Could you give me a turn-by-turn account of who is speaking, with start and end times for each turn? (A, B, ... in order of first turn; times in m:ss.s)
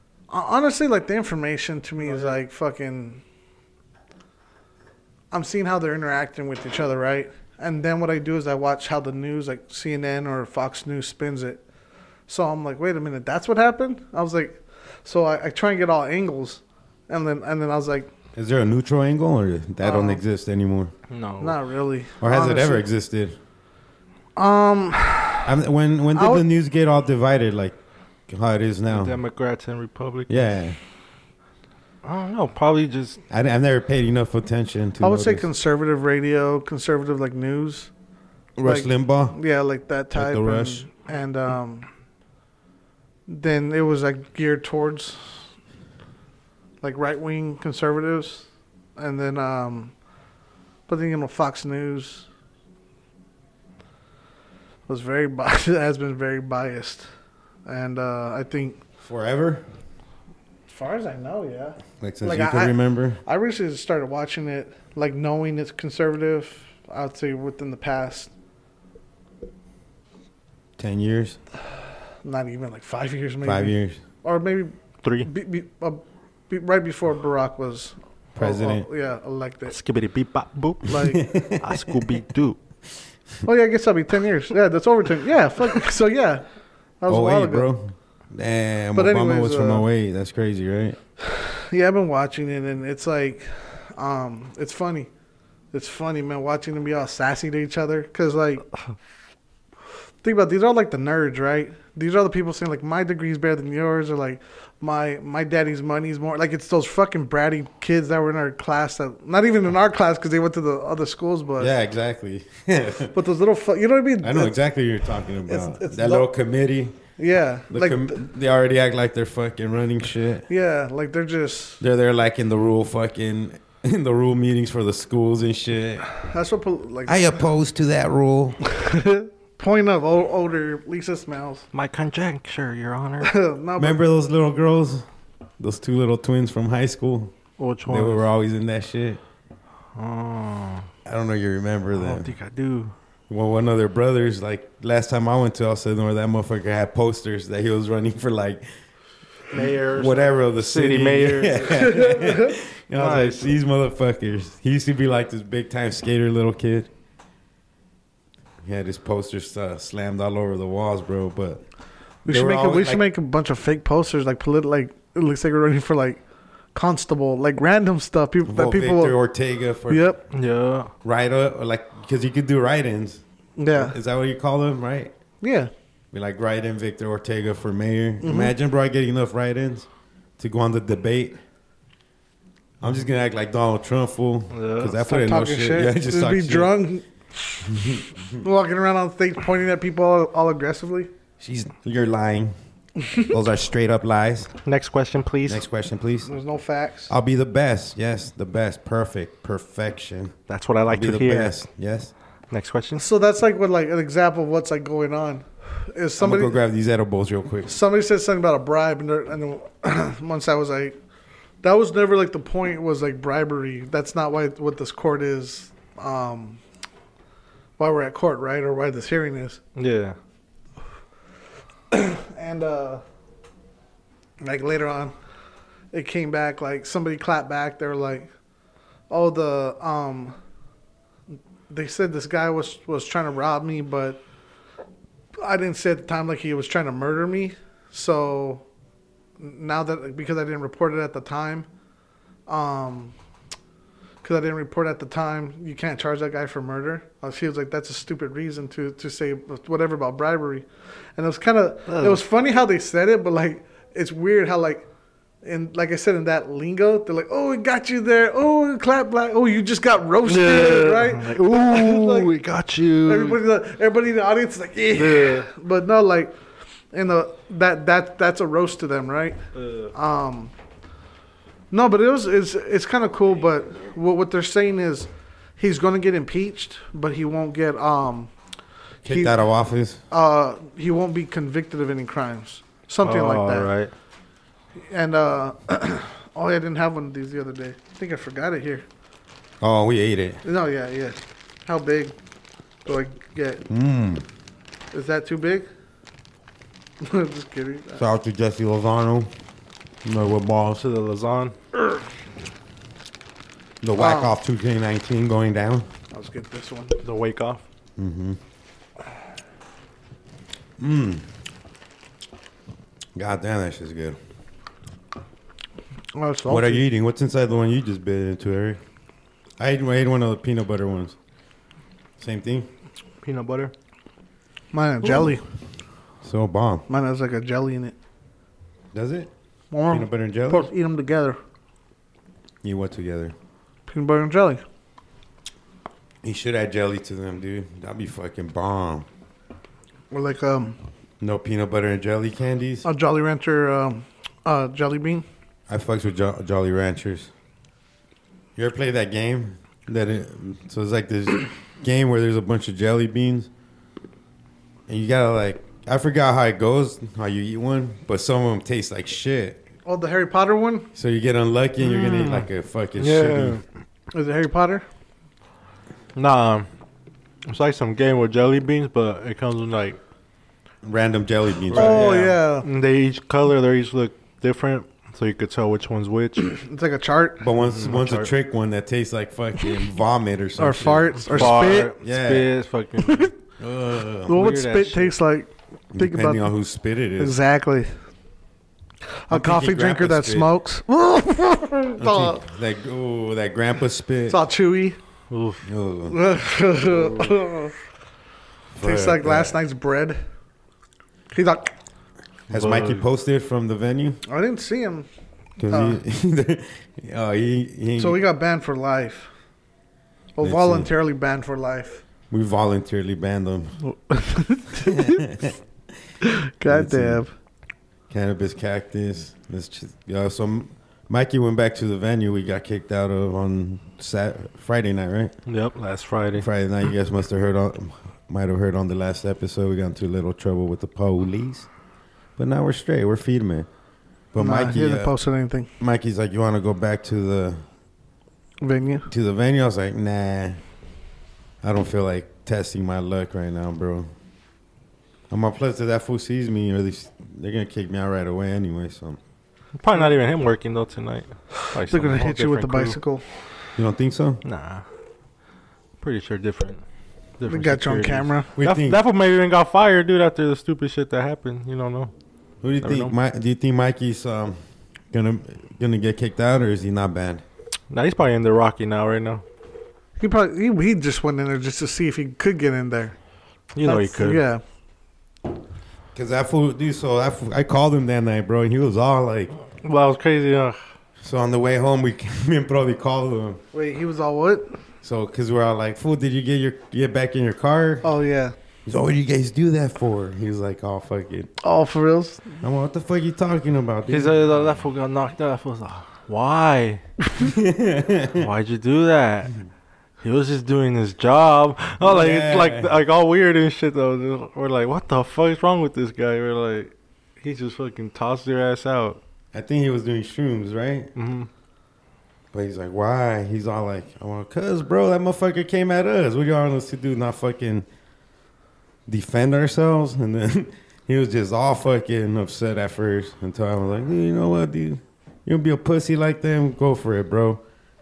0:00.3-0:03.2 A
0:02.0-0:02.4 B
0:05.3-0:11.6 A
0:12.3-0:18.1 A
0:18.3-0:20.9 C
0:19.8-0:20.2 A
0:21.1-0:21.6 B
0:21.4-0:22.8 A
0:22.2-0:23.4 C
0:24.4-0:25.5 A
0:25.4-0:27.8 C
0:26.1-0:26.4 A
0:28.3-0:29.2 C
0:28.9-0:30.5 B
0:30.3-0:30.8 C
0:32.0-0:33.2 B
0:33.3-0:35.5 C
0:35.0-0:37.9 A
0:38.6-0:39.4 C
0:38.6-0:41.9 A
0:40.1-0:40.9 C
0:43.3-0:45.4 A
0:46.8-0:49.9 A
0:50.9-0:52.3 A
0:54.9-0:57.1 A
0:57.6-0:58.8 A
0:59.0-0:59.6 C
1:00.7-1:08.3 A
1:02.0-1:03.2 C
1:10.8-1:11.4 C
1:12.2-1:19.8 A
1:13.4-1:14.0 C
1:15.0-1:15.3 B
1:18.3-1:18.8 C
1:19.7-1:22.6 B
1:20.9-1:21.2 A
1:21.0-1:21.8 C
1:23.4-1:26.4 A
1:27.0-1:27.7 A
1:27.1-1:31.0 C
1:28.9-1:29.8 A
1:31.2-1:35.1 A
1:35.7-1:38.7 A
1:40.2-1:51.7 A
1:51.6-1:53.1 C
1:53.1-1:54.6 A
1:54.2-1:57.0 C
1:55.4-1:56.3 A
1:57.2-1:58.2 A
1:57.7-2:00.5 C
2:00.5-2:01.8 A
2:01.8-2:06.1 C
2:06.2-2:07.4 A
2:07.0-2:08.6 C
2:08.7-2:11.6 A
2:11.7-2:13.3 B
2:13.2-2:14.0 A
2:13.8-2:15.0 C
2:15.6-2:17.3 C
2:17.6-2:18.2 B
2:17.8-2:19.2 C
2:19.9-2:20.9 B
2:21.0-2:22.3 C
2:21.9-2:22.9 B
2:23.3-2:28.7 C
2:29.5-2:32.0 B
2:29.9-2:36.9 C
2:31.8-2:32.5 A
2:32.9-2:33.5 B
2:38.6-2:41.6 C
2:42.2-2:43.0 C
2:42.2-2:46.2 A
2:46.7-2:49.2 A
2:48.5-2:50.1 C
2:49.9-2:50.2 A
2:50.3-2:50.9 B
2:51.0-2:53.2 C
2:53.6-2:54.0 A
2:53.7-2:55.1 C
2:55.4-2:55.7 A
2:56.1-2:59.9 C
2:58.2-2:58.5 A
3:00.4-3:01.4 C
3:02.8-3:06.8 C
3:04.5-3:04.9 B
3:05.0-3:07.7 A
3:07.6-3:08.3 C
3:08.3-3:11.1 A
3:11.4-3:12.5 C
3:13.3-3:14.5 C
3:14.6-3:15.6 B
3:15.5-3:16.3 C
3:16.2-3:17.1 A
3:17.1-3:20.3 C
3:20.5-3:21.6 B
3:20.8-3:22.1 C
3:22.5-3:23.0 B
3:23.0-3:26.6 A
3:26.2-3:27.7 C
3:27.7-3:31.0 A
3:31.6-3:36.6 A
3:37.8-3:39.6 A
3:39.8-3:40.2 B
3:41.9-3:43.0 A
3:44.4-3:45.1 A
3:45.9-3:48.3 A
3:49.1-3:50.4 A
3:51.7-3:54.2 A
3:55.4-3:58.6 A
3:59.4-4:01.7 A
4:02.5-4:03.1 A
4:04.2-4:14.9 A
4:11.9-4:12.2 B
4:15.4-4:22.3 A
4:20.2-4:23.4 B
4:23.0-4:26.3 A
4:24.9-4:25.5 B
4:26.9-4:29.4 A
4:29.6-4:29.9 B
4:29.9-4:30.5 A
4:31.7-4:38.3 A
4:39.0-4:39.4 A
4:39.0-4:40.0 C
4:40.1-4:43.7 A
4:43.0-4:43.9 B
4:44.9-4:48.8 A
4:49.6-4:50.4 C
4:50.4-4:52.1 A
4:52.8-4:53.6 A
4:53.7-4:54.2 C
4:54.9-4:55.7 A
4:57.0-4:58.0 A
4:58.0-4:59.3 C
5:00.0-5:00.8 C
5:00.8-5:01.5 B
5:03.8-5:05.9 C
5:04.0-5:04.3 A
5:06.1-5:07.0 A
5:07.0-5:07.6 B
5:08.0-5:08.4 C
5:10.8-5:11.3 C
5:13.1-5:14.2 C
5:16.1-5:16.8 A
5:16.5-5:18.8 C
5:19.6-5:21.2 C
5:22.2-5:22.7 C
5:23.2-5:23.7 B
5:24.7-5:25.4 A
5:26.2-5:26.8 C
5:26.9-5:27.9 A
5:28.9-5:29.3 C
5:29.7-5:31.4 A
5:29.9-5:30.7 C
5:32.6-5:33.3 C
5:33.9-5:34.6 A
5:36.2-5:39.1 C
5:40.1-5:40.8 A
5:41.2-5:42.8 C
5:42.8-5:45.2 A
5:45.7-5:47.3 C
5:48.6-5:53.5 C
5:54.9-5:59.6 C
5:59.8-6:00.9 A
6:00.9-6:03.6 C
6:01.8-6:02.5 B
6:03.0-6:03.6 B
6:04.1-6:04.8 A
6:06.1-6:06.7 B
6:07.5-6:10.0 B
6:10.8-6:12.1 C
6:11.7-6:16.6 B
6:11.7-6:12.6 A
6:16.5-6:17.5 A
6:17.4-6:22.5 C
6:17.6-6:18.3 B
6:20.6-6:21.9 A
6:21.3-6:23.3 B
6:23.6-6:24.4 C
6:24.3-6:26.5 A
6:24.3-6:25.1 B
6:25.9-6:27.3 C
6:27.2-6:27.9 A
6:29.3-6:32.4 A
6:29.3-6:30.5 C
6:32.0-6:34.4 C
6:34.3-6:35.0 A
6:35.3-6:35.6 B
6:35.6-6:36.2 C
6:36.1-6:37.7 A
6:38.7-6:39.6 C
6:38.8-6:40.2 A
6:41.3-6:41.7 A
6:42.5-6:44.2 C
6:42.5-6:43.0 B
6:44.2-6:45.1 A
6:45.6-6:48.2 C
6:45.7-6:46.0 A
6:48.0-6:49.3 A
6:50.3-6:52.0 A
6:50.4-6:50.9 C
6:52.3-6:53.8 C
6:53.8-6:55.2 A
6:54.8-6:55.6 C
6:56.2-6:57.3 A
6:56.7-6:57.2 C
6:58.1-7:05.3 C
7:05.5-7:06.5 B
7:06.4-7:11.7 C
7:12.4-7:13.7 C
7:14.3-7:15.1 C
7:14.4-7:15.7 A
7:15.8-7:17.6 C
7:18.6-7:19.1 A
7:19.1-7:20.6 C
7:21.6-7:24.1 C
7:25.3-7:29.2 C
7:29.8-7:33.0 B
7:31.8-7:33.2 A
7:33.8-7:34.4 C
7:34.4-7:34.8 B
7:36.0-7:36.8 B
7:37.4-7:42.1 B
7:37.5-7:38.5 A
7:38.6-7:39.0 C
7:42.6-7:44.6 C
7:42.8-7:43.1 B
7:45.1-7:47.4 C
7:47.9-7:49.4 B
7:50.2-7:53.2 A
7:53.7-7:54.4 B
7:53.8-7:54.6 A
7:56.1-7:59.5 C
7:59.8-8:00.8 B
8:01.2-8:03.6 C
8:03.7-8:04.8 A
8:05.0-8:08.1 C
8:08.0-8:08.5 A
8:08.8-8:11.5 C
8:11.6-8:12.6 A
8:12.6-8:14.3 C
8:14.1-8:17.0 B
8:17.4-8:18.5 C
8:18.3-8:19.6 B
8:20.2-8:29.2 B
8:22.0-8:22.9 C
8:29.5-8:31.1 C
8:31.2-8:31.5 B
8:32.5-8:37.8 C
8:39.1-8:47.6 C